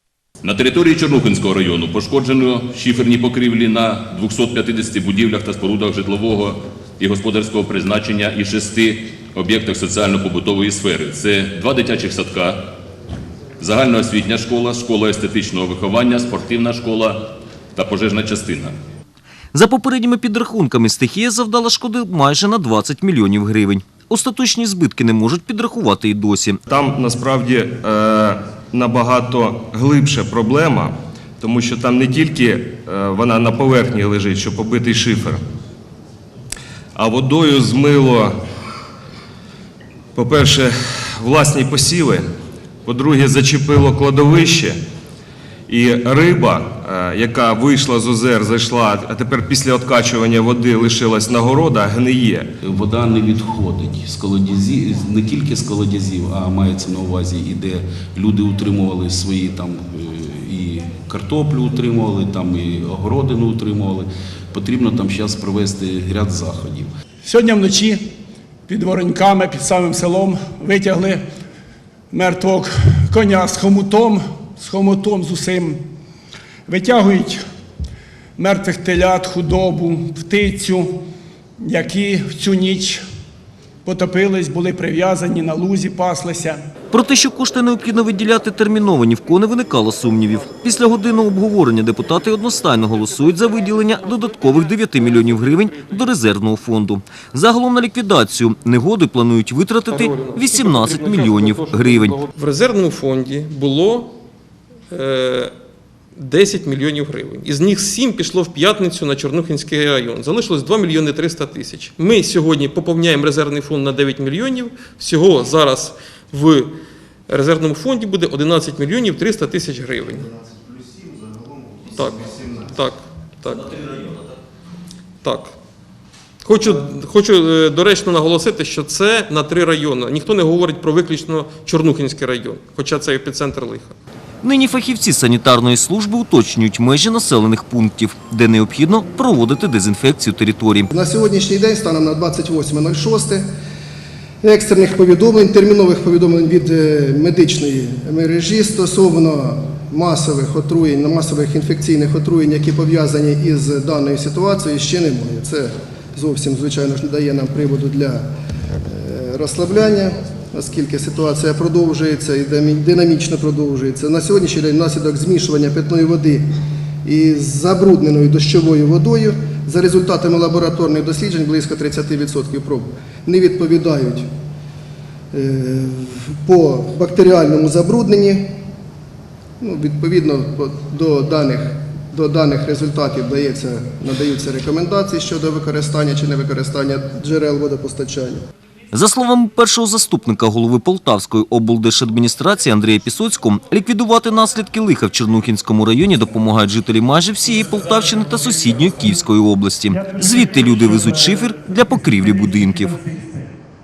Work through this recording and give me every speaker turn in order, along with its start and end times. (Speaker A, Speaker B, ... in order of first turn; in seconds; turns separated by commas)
Speaker A: 0.4-12.6, Speaker A: 13.6-17.2, Speaker A: 17.8-18.7, Speaker B: 19.5-26.6, Speaker C: 26.7-35.4, Speaker C: 37.0-38.4, Speaker C: 40.1-42.3, Speaker C: 42.9-44.8, Speaker C: 45.7-52.5, Speaker D: 52.6-66.9, Speaker E: 67.2-68.0, Speaker E: 68.7-71.2, Speaker E: 72.1-75.8, Speaker E: 76.7-77.4, Speaker E: 78.4-80.9, Speaker E: 81.6-83.0, Speaker E: 83.8-86.6, Speaker B: 86.9-102.2, Speaker F: 99.9-104.2, Speaker F: 104.9-105.5, Speaker F: 106.2-116.7, Speaker F: 117.3-120.3, Speaker F: 121.9-123.9, Speaker F: 125.2-125.5, Speaker F: 126.4-133.9, Speaker B: 134.4-140.9, Speaker G: 140.9-143.4, Speaker G: 144.4-158.2, Speaker G: 158.8-166.5, Speaker G: 167.0-174.3, Speaker G: 175.3-178.6, Speaker G: 179.6-188.4, Speaker B: 188.9-203.0, Speaker E: 199.9-201.0, Speaker E: 202.9-203.5